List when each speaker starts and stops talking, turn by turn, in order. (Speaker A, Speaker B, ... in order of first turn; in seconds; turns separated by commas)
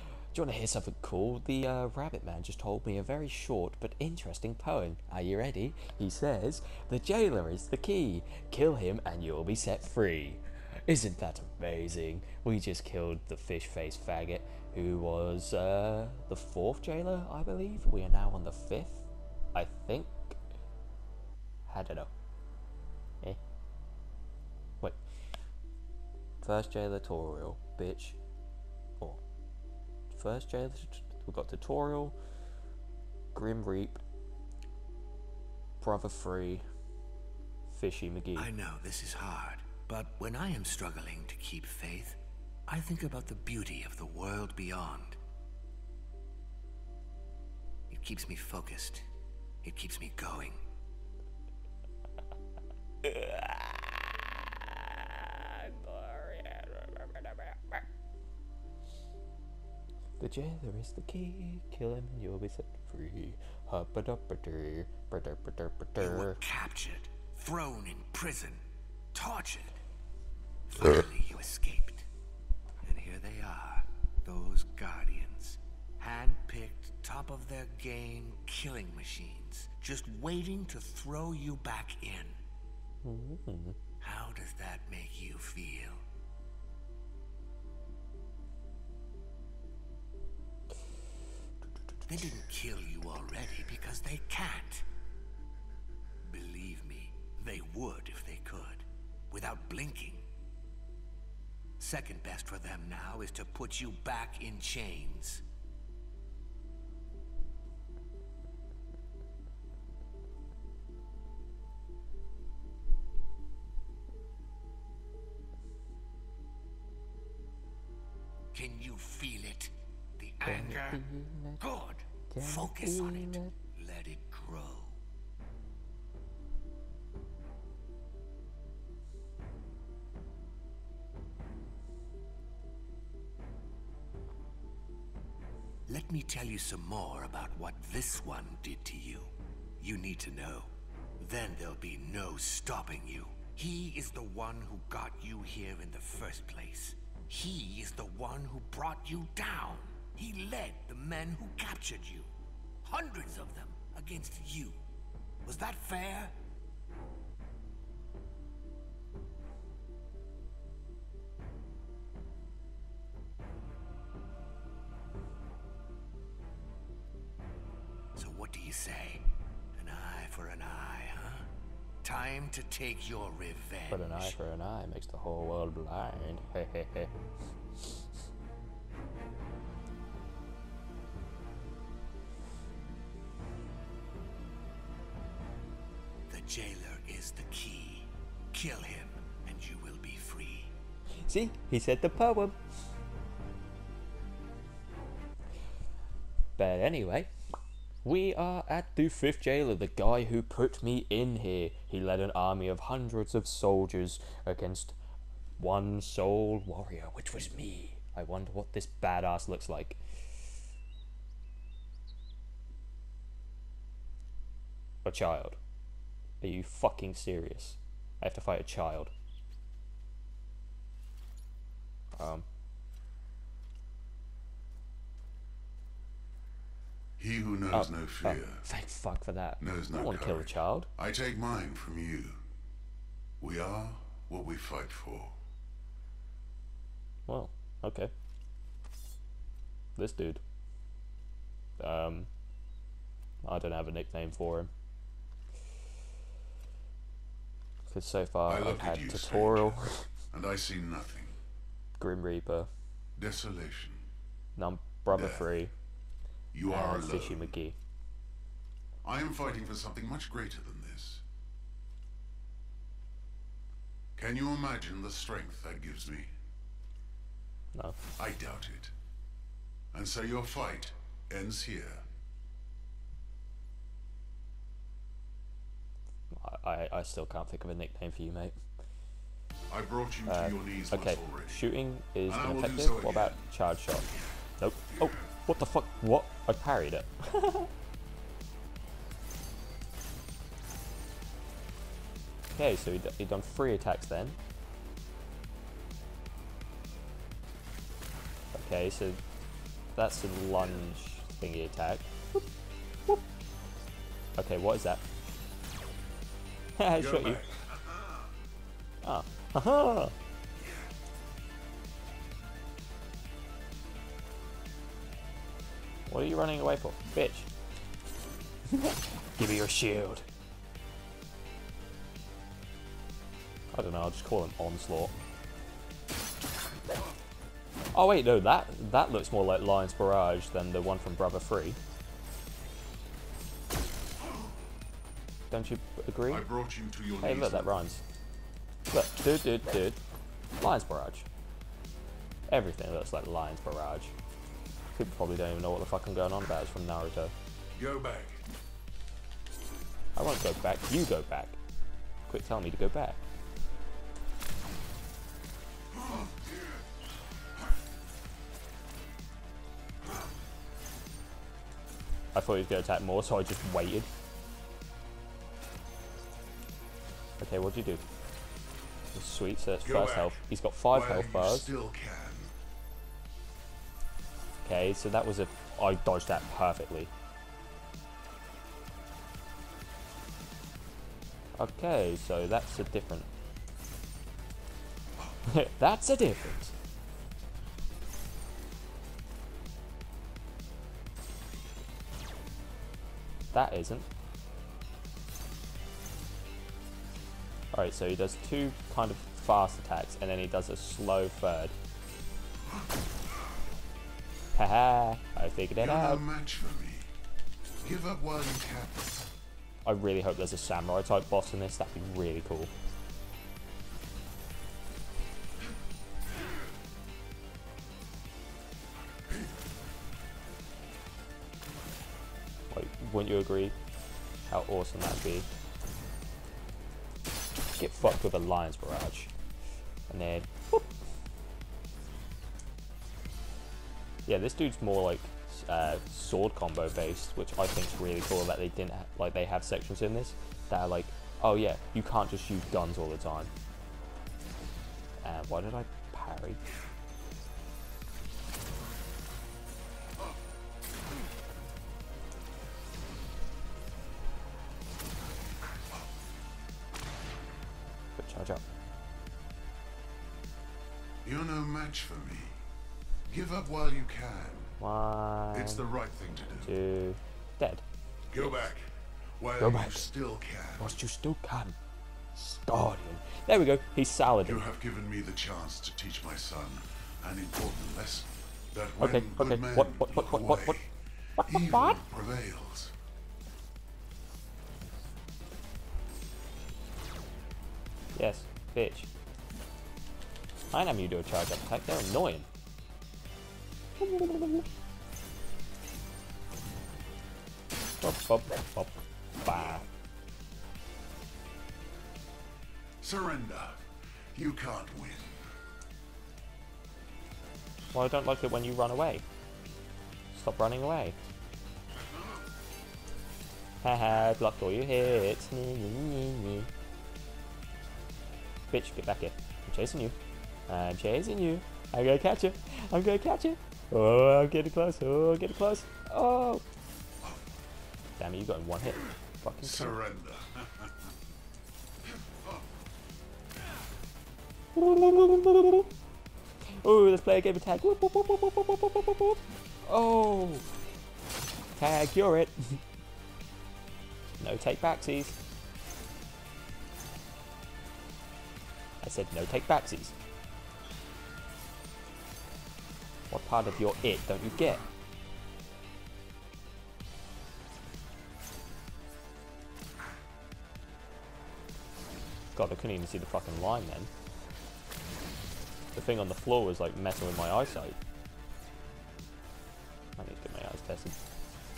Speaker A: 0.3-20.4, Speaker A: 21.7-22.1, Speaker A: 26.4-28.2, Speaker A: 30.1-32.1, Speaker A: 33.3-34.0, Speaker A: 35.8-36.6, Speaker A: 37.7-38.5, Speaker B: 38.4-45.2, Speaker B: 47.9-49.1, Speaker B: 49.6-50.6, Speaker A: 53.0-57.8, Speaker A: 60.2-66.4, Speaker B: 66.0-68.6, Speaker B: 69.1-69.8, Speaker B: 70.7-72.1, Speaker B: 72.8-82.4, Speaker A: 83.0-83.8, Speaker B: 84.0-86.0, Speaker B: 92.1-94.8, Speaker B: 96.2-100.2, Speaker B: 101.8-105.4, Speaker B: 118.5-121.0, Speaker A: 120.4-121.6, Speaker B: 121.6-125.0, Speaker A: 122.3-123.5, Speaker B: 135.9-152.3, Speaker B: 152.8-154.8, Speaker B: 155.4-156.3, Speaker B: 168.2-171.5, Speaker B: 172.0-174.4, Speaker A: 173.9-177.1, Speaker B: 186.3-190.7, Speaker A: 191.2-192.6, Speaker A: 196.6-197.3, Speaker A: 198.0-205.0, Speaker A: 205.6-210.0, Speaker A: 215.0-215.6, Speaker A: 216.4-219.1, Speaker A: 222.2-222.4, Speaker C: 227.2-228.6, Speaker A: 227.7-230.9, Speaker C: 229.6-232.4, Speaker C: 233.4-235.3, Speaker A: 237.3-238.1, Speaker A: 239.9-240.4, Speaker A: 241.8-242.3, Speaker A: 243.4-244.7, Speaker A: 247.9-250.1, Speaker C: 248.4-249.8, Speaker C: 250.3-251.3, Speaker A: 252.0-252.7, Speaker C: 253.2-254.0, Speaker A: 254.6-255.7, Speaker C: 255.1-255.5, Speaker C: 256.5-257.5, Speaker A: 256.6-257.8, Speaker C: 259.0-261.2, Speaker C: 264.1-266.3, Speaker C: 268.2-268.9, Speaker C: 269.9-272.0, Speaker A: 276.3-278.6, Speaker C: 279.7-281.6, Speaker A: 280.3-287.7, Speaker C: 282.3-283.5, Speaker A: 292.5-294.4, Speaker A: 298.5-299.2, Speaker A: 299.9-302.4, Speaker A: 304.4-305.0, Speaker A: 306.8-307.4, Speaker C: 306.9-308.3, Speaker A: 309.0-310.1, Speaker A: 316.1-317.5, Speaker A: 318.7-320.3, Speaker A: 323.7-325.1, Speaker A: 327.9-331.8, Speaker A: 335.5-336.5, Speaker C: 336.3-337.8, Speaker A: 337.2-338.0, Speaker A: 338.9-340.0, Speaker A: 340.6-341.3, Speaker A: 342.5-344.1, Speaker A: 344.9-347.3, Speaker C: 347.7-348.4, Speaker A: 350.1-351.6, Speaker A: 352.3-353.2, Speaker A: 362.3-364.1, Speaker A: 367.4-368.0, Speaker A: 369.1-371.7, Speaker C: 369.8-372.5, Speaker A: 374.6-377.1, Speaker A: 381.6-383.3, Speaker A: 385.4-386.7, Speaker A: 393.5-394.1, Speaker A: 397.7-401.7, Speaker A: 404.5-406.2, Speaker C: 405.8-407.1, Speaker C: 407.8-409.0, Speaker A: 409.8-412.7, Speaker A: 422.7-423.8, Speaker A: 424.4-425.5, Speaker A: 427.8-429.3, Speaker A: 430.1-430.9, Speaker A: 434.2-443.5, Speaker A: 445.2-446.6, Speaker A: 458.1-458.6, Speaker C: 461.2-462.6, Speaker C: 463.3-464.7, Speaker A: 464.8-465.8, Speaker C: 465.5-466.7, Speaker A: 466.6-467.8, Speaker C: 468.3-471.0, Speaker A: 469.6-470.1, Speaker A: 470.8-471.8, Speaker A: 472.3-474.7, Speaker C: 474.4-482.9, Speaker A: 479.0-480.8, Speaker A: 481.4-482.0, Speaker A: 488.1-489.1, Speaker A: 490.7-492.5, Speaker A: 494.0-494.7, Speaker A: 498.0-499.9, Speaker C: 503.0-503.8, Speaker C: 504.3-505.4, Speaker A: 507.9-509.2, Speaker A: 510.3-511.2, Speaker A: 513.8-516.7, Speaker A: 518.7-520.1, Speaker A: 520.7-526.6, Speaker A: 528.2-530.0, Speaker C: 529.6-530.9, Speaker A: 534.7-535.9, Speaker A: 536.7-540.7, Speaker A: 541.8-542.8, Speaker A: 544.4-545.4, Speaker A: 549.0-550.1, Speaker A: 553.3-554.8, Speaker A: 562.5-564.1, Speaker A: 565.9-568.0, Speaker A: 570.2-571.1